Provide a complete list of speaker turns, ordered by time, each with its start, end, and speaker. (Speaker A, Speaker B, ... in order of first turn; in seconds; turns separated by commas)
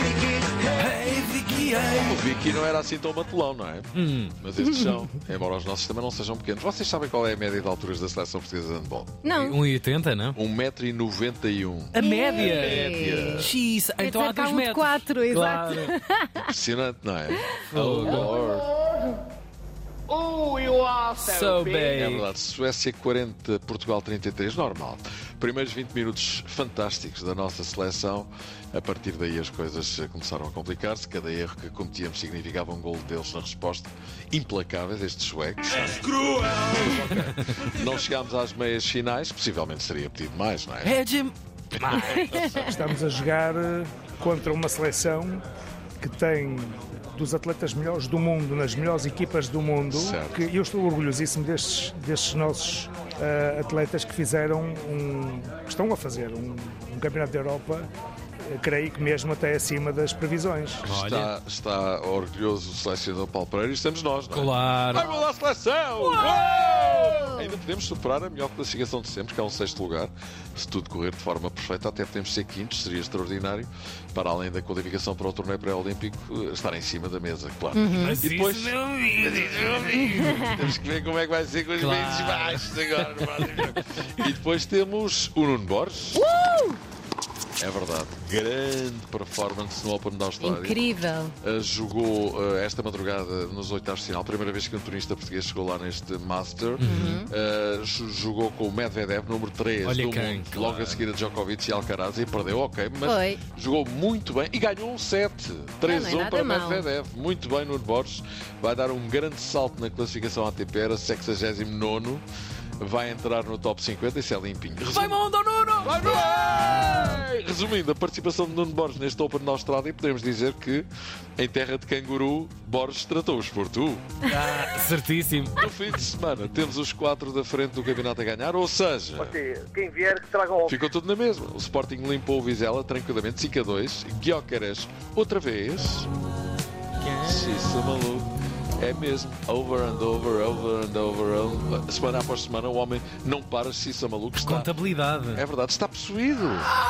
Speaker A: 0.6-2.1, Speaker B: 2.0-9.2, Speaker A: 3.9-4.3, Speaker C: 4.6-5.0, Speaker C: 9.2-9.6, Speaker A: 9.3-10.4, Speaker B: 10.3-13.5, Speaker A: 11.9-15.9, Speaker C: 11.9-16.5, Speaker B: 16.4-18.7, Speaker A: 17.7-18.3, Speaker D: 20.1-22.0, Speaker A: 21.2-22.3, Speaker B: 21.9-41.0, Speaker A: 37.0-37.5, Speaker A: 40.8-42.3, Speaker B: 41.8-42.9, Speaker C: 42.2-42.7, Speaker E: 42.6-45.4, Speaker E: 46.0-57.9, Speaker B: 49.9-50.4, Speaker E: 58.5-60.8, Speaker B: 60.8-86.2, Speaker A: 60.8-61.3, Speaker A: 64.3-65.2, Speaker C: 66.6-67.5, Speaker C: 77.7-78.2, Speaker A: 77.9-80.1, Speaker C: 80.1-80.7, Speaker A: 81.8-83.8, Speaker C: 86.2-86.8, Speaker B: 87.6-90.8, Speaker C: 90.4-91.3, Speaker B: 91.4-112.2, Speaker A: 96.8-97.2, Speaker C: 96.8-97.3, Speaker A: 99.8-101.0, Speaker C: 103.0-103.4, Speaker C: 105.8-106.8, Speaker B: 112.8-115.2, Speaker A: 114.8-116.1, Speaker B: 115.8-124.1, Speaker A: 124.2-125.6, Speaker B: 125.6-129.4, Speaker D: 129.2-130.8, Speaker B: 130.7-136.1, Speaker A: 137.0-137.3, Speaker B: 137.2-144.7, Speaker A: 144.4-145.4, Speaker B: 145.3-146.7